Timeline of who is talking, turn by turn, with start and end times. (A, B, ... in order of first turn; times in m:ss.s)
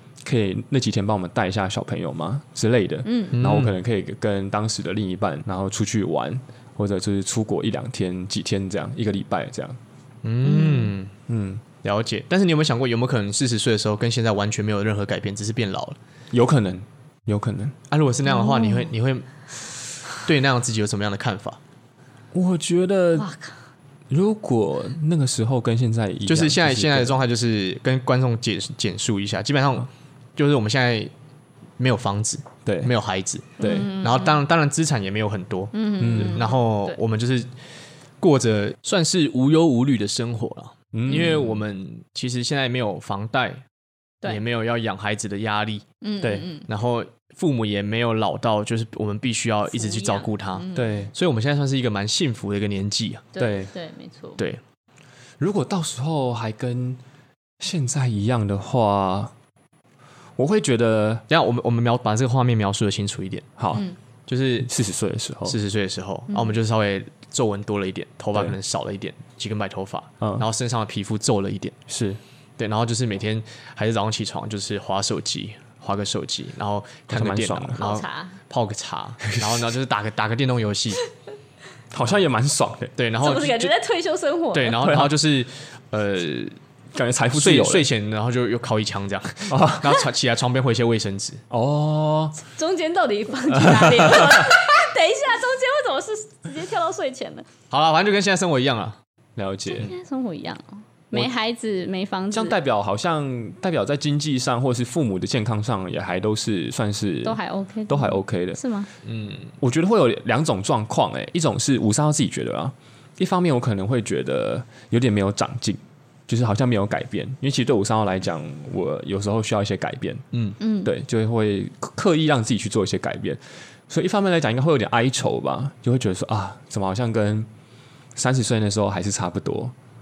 0:00.2-0:09.8 A
0:03.0-0:03.4 B
0:03.3-0:03.7 C
0:10.2-0:11.1 C
0:10.4-0:10.9 B
0:11.3-0:11.6 A
0:11.8-0:16.0 C
0:16.3-0:17.8 A
0:17.9-0:19.3 C
0:18.3-0:18.9 B
0:20.2-0:21.6 C
0:22.3-0:23.3 A
0:23.2-0:23.5 B
0:24.1-0:27.2 A
0:26.2-0:31.1 C
0:31.8-0:37.5 C
0:32.6-0:32.9 A
0:33.6-0:33.9 A
0:33.6-0:34.4 B
0:35.7-0:37.0 B
0:36.0-0:36.4 A
0:38.2-0:43.6 C
0:40.9-0:41.5 A
0:41.1-0:41.4 B
0:44.2-0:53.3 C
0:46.0-0:46.7 B
0:49.7-0:51.0 B
0:50.7-0:51.1 A
0:53.3-0:54.4 B
0:53.4-0:53.7 A
0:55.4-0:57.0 A
0:57.6-0:59.3 A
1:00.4-1:01.2 A
1:01.3-1:03.5 C
1:03.6-1:03.9 A
1:04.3-1:04.7 C
1:04.6-1:05.6 A
1:05.4-1:11.8 C
1:11.9-1:12.2 A
1:12.6-1:21.0 C
1:17.1-1:17.8 A
1:17.8-1:18.4 B
1:19.3-1:19.6 A
1:21.9-1:22.9 A
1:23.0-1:23.7 C
1:23.2-1:24.9 B
1:24.5-1:26.6 C
1:24.8-1:25.1 A
1:26.9-1:27.9 A
1:27.3-1:31.4 C
1:29.5-1:30.0 A
1:31.5-1:32.4 A
1:32.4-1:37.5 B
1:33.5-1:34.5 A
1:37.7-1:39.0 C
1:39.4-1:39.9 A
1:39.7-1:42.5 B
1:42.3-1:48.6 A
1:47.2-1:48.9 B
1:49.0-1:49.5 C
1:49.6-2:00.2 A
2:00.6-2:00.9 B
2:00.8-2:07.5 A
2:08.1-2:09.7 A